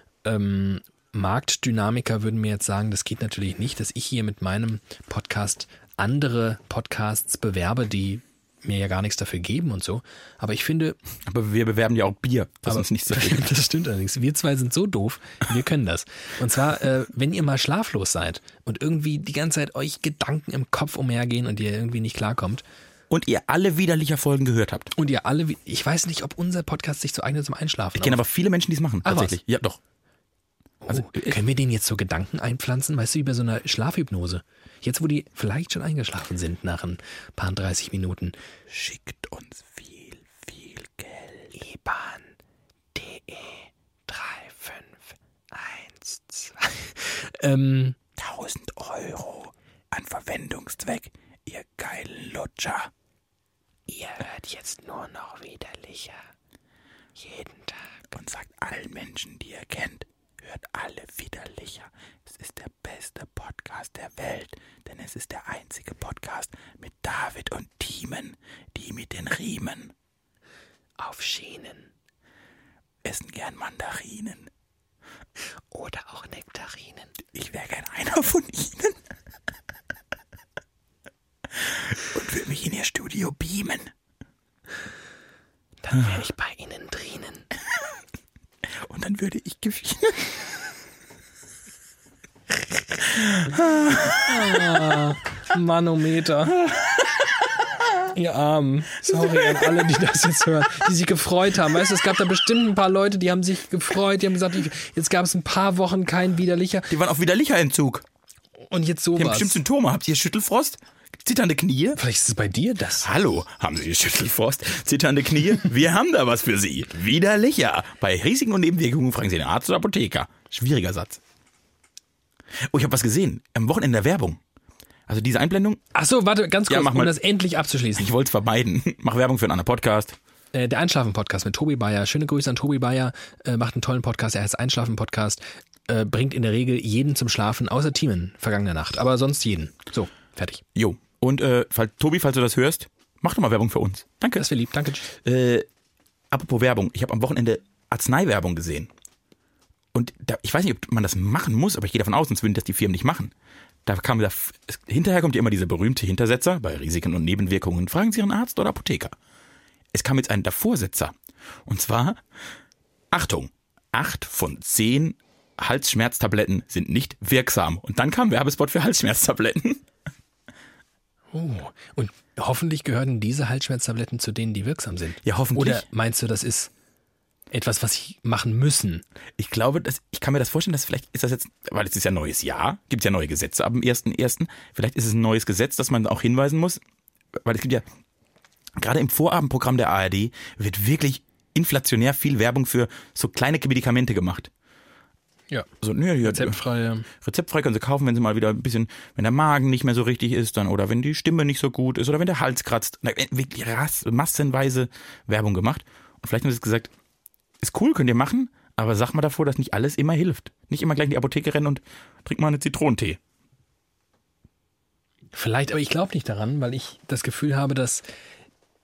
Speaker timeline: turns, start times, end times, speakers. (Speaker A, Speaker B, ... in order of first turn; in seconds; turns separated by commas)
Speaker A: 0.2-11.0, Speaker B: 11.2-13.6, Speaker A: 12.7-22.6, Speaker B: 23.1-24.9, Speaker A: 24.9-28.2, Speaker B: 27.9-29.8, Speaker A: 29.0-29.4, Speaker A: 30.8-38.3, Speaker B: 30.9-31.4, Speaker B: 38.7-41.5, Speaker A: 41.5-42.3, Speaker A: 42.9-48.0, Speaker B: 48.2-52.9, Speaker A: 53.9-56.2, Speaker A: 57.2-57.8, Speaker B: 58.1-69.9, Speaker A: 71.0-71.9, Speaker B: 73.0-74.5, Speaker A: 75.7-77.1, Speaker B: 77.3-79.0, Speaker B: 81.5-83.9, Speaker A: 85.8-87.5, Speaker B: 88.8-90.5, Speaker B: 93.1-95.0, Speaker A: 94.2-96.7, Speaker B: 96.7-97.2, Speaker A: 98.1-106.9, Speaker B: 99.2-99.7, Speaker B: 106.9-108.0, Speaker A: 108.7-109.6, Speaker B: 109.2-112.0, Speaker A: 112.0-113.1, Speaker B: 113.0-121.2, Speaker B: 122.6-124.4, Speaker B: 125.1-125.8, Speaker A: 125.9-128.1, Speaker B: 126.7-127.1, Speaker B: 128.0-130.2, Speaker A: 130.5-140.6, Speaker B: 140.7-144.4, Speaker A: 144.3-145.1, Speaker B: 145.1-145.7, Speaker B: 146.3-148.9, Speaker B: 149.9-153.3, Speaker B: 153.8-159.1, Speaker B: 159.9-161.1, Speaker B: 161.7-162.2, Speaker B: 163.1-169.8, Speaker A: 171.3-176.7, Speaker B: 175.2-175.8, Speaker A: 177.5-179.0, Speaker B: 179.4-186.8, Speaker B: 187.3-187.8, Speaker B: 188.8-194.5, Speaker B: 195.8-196.6, Speaker A: 196.2-197.1, Speaker B: 197.1-206.9, Speaker B: 207.6-213.2, Speaker A: 215.3-218.0